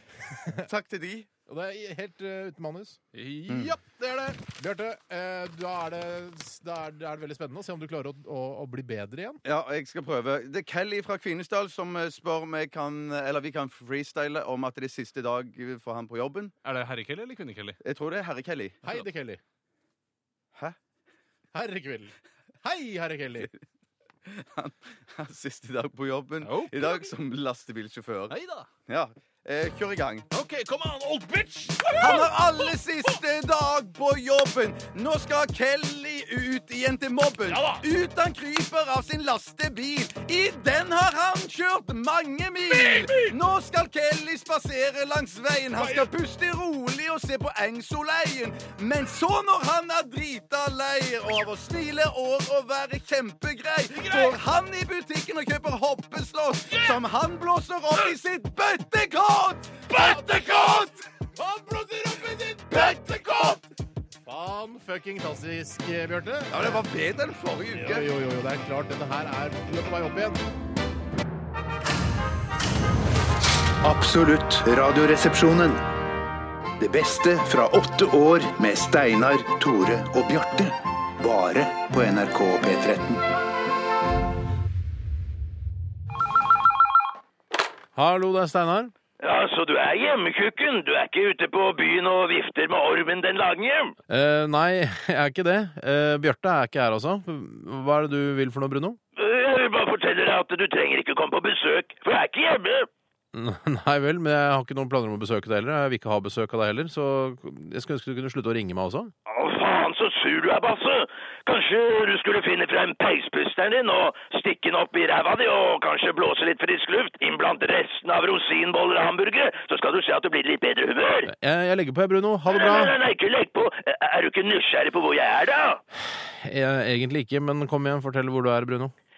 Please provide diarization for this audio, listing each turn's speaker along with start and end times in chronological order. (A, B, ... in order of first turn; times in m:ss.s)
0:00.5-0:01.3 A
0:01.5-0:03.0 B
0:03.1-0:04.1 C
0:04.0-0:09.4 B
0:09.4-0:16.5 A
0:16.6-0:17.8 C
0:17.8-0:18.8 A
0:18.8-0:19.4 B
0:21.5-0:23.5 B
0:24.3-0:28.4 A
0:26.4-0:27.1 C
0:28.3-0:28.7 C
0:28.9-0:30.3 A
0:30.3-0:32.7 C
0:32.0-1:00.9 A
0:37.5-0:37.8 C
0:42.7-0:43.3 C
0:45.8-0:46.1 C
0:53.9-0:54.4 C
0:56.7-0:57.0 C
0:59.9-1:00.4 C
1:00.0-1:00.8 B
1:01.4-1:03.4 B
1:02.7-1:03.6 A
1:02.9-1:03.2 C
1:04.2-1:06.8 B
1:06.5-1:08.1 A
1:07.7-1:10.4 B
1:13.8-1:15.8 D
1:16.8-1:23.2 D
1:28.0-1:28.9 B
1:29.2-1:34.0 E
1:34.1-1:39.0 B
1:39.2-1:42.9 E
1:43.3-1:49.1 B
1:49.3-2:01.3 E
2:01.3-2:03.0 B
2:02.5-2:05.8 E
2:06.2-2:08.9 B